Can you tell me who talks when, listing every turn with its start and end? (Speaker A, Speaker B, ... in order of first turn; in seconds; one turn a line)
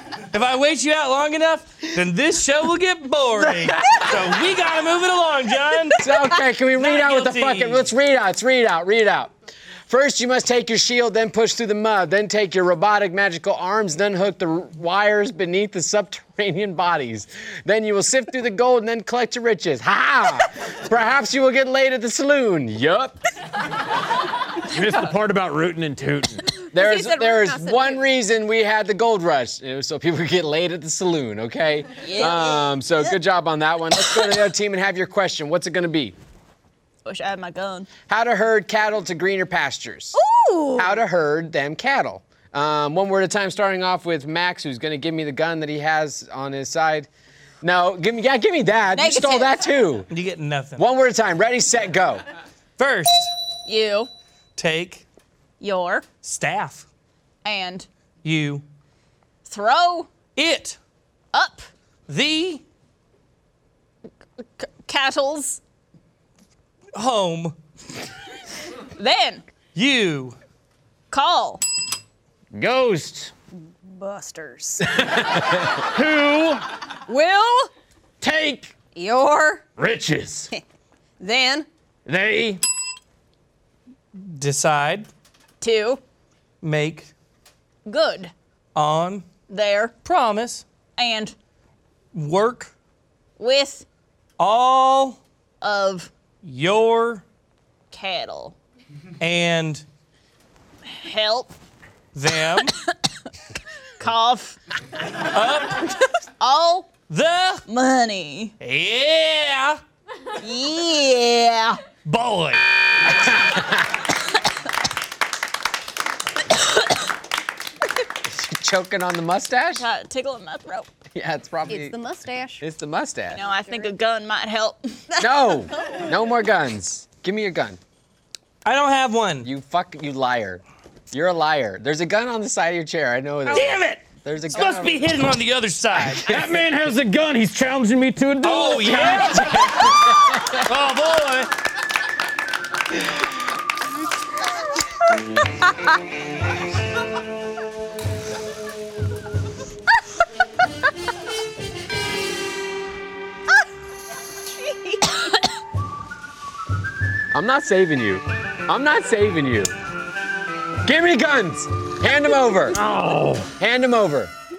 Speaker A: 0.3-6.1
Speaker B: 6.0-9.3
Speaker A: 6.8-7.9
Speaker B: 9.9-23.2
Speaker C: 24.6-26.6
Speaker B: 26.7-36.2
Speaker D: 26.7-27.9
Speaker E: 32.0-32.8
Speaker E: 37.0-37.9
Speaker B: 38.1-40.2
Speaker E: 40.1-41.0
Speaker B: 40.8-47.1
Speaker B: 47.6-50.1
Speaker E: 48.9-49.6
Speaker A: 50.1-50.8
Speaker B: 50.8-52.2
Speaker A: 52.8-53.3
Speaker E: 53.7-54.1
Speaker A: 54.6-55.0
Speaker E: 55.6-56.1
Speaker A: 56.2-56.9
Speaker E: 57.4-57.9
Speaker A: 58.2-58.6
Speaker E: 59.5-60.1
Speaker A: 60.4-60.8
Speaker E: 61.3-61.7
Speaker A: 62.1-62.6
Speaker E: 64.6-65.6
Speaker A: 67.0-67.5
Speaker E: 69.0-69.5
Speaker A: 69.8-70.4
Speaker E: 71.1-71.6
Speaker C: 72.5-73.3
Speaker D: 73.8-75.0
Speaker C: 75.8-76.6
Speaker D: 77.1-77.7
Speaker C: 78.2-78.8
Speaker D: 79.0-79.6
Speaker C: 79.8-80.5
Speaker D: 81.2-81.7
Speaker C: 82.1-82.6
Speaker A: 84.2-85.1
Speaker E: 85.6-86.0
Speaker A: 86.6-87.1
Speaker E: 87.9-88.3
Speaker A: 88.8-89.3
Speaker E: 89.5-89.9
Speaker A: 90.0-90.7
Speaker E: 91.0-91.3
Speaker A: 92.1-92.7
Speaker E: 93.4-93.9
Speaker A: 94.4-95.2
Speaker E: 95.6-96.1
Speaker A: 96.4-97.2
Speaker E: 97.9-98.6
Speaker A: 99.2-99.8
Speaker E: 100.9-101.5
Speaker A: 102.1-102.8
Speaker E: 104.0-104.6
Speaker A: 105.3-105.9
Speaker E: 106.4-106.9
Speaker A: 107.1-107.6
Speaker E: 107.7-108.5
Speaker A: 108.6-109.8
Speaker E: 110.4-111.8
Speaker A: 112.0-112.6
Speaker B: 113.3-114.0
Speaker E: 116.5-116.8
Speaker B: 118.2-119.8
Speaker E: 119.8-120.9
Speaker B: 121.1-122.0
Speaker D: 121.7-122.6
Speaker B: 122.6-123.4
Speaker E: 123.3-125.1
Speaker D: 123.5-123.9
Speaker B: 125.2-127.8
Speaker A: 128.6-129.5
Speaker B: 129.4-135.1
Speaker A: 133.5-134.0
Speaker A: 134.5-136.3
Speaker C: 136.3-139.2
Speaker A: 138.4-139.9
Speaker B: 138.8-140.7
Speaker A: 140.5-141.5
Speaker E: 154.6-155.4
Speaker B: 157.3-159.7
Speaker B: 160.8-162.8
Speaker C: 162.7-163.5
Speaker B: 163.6-164.3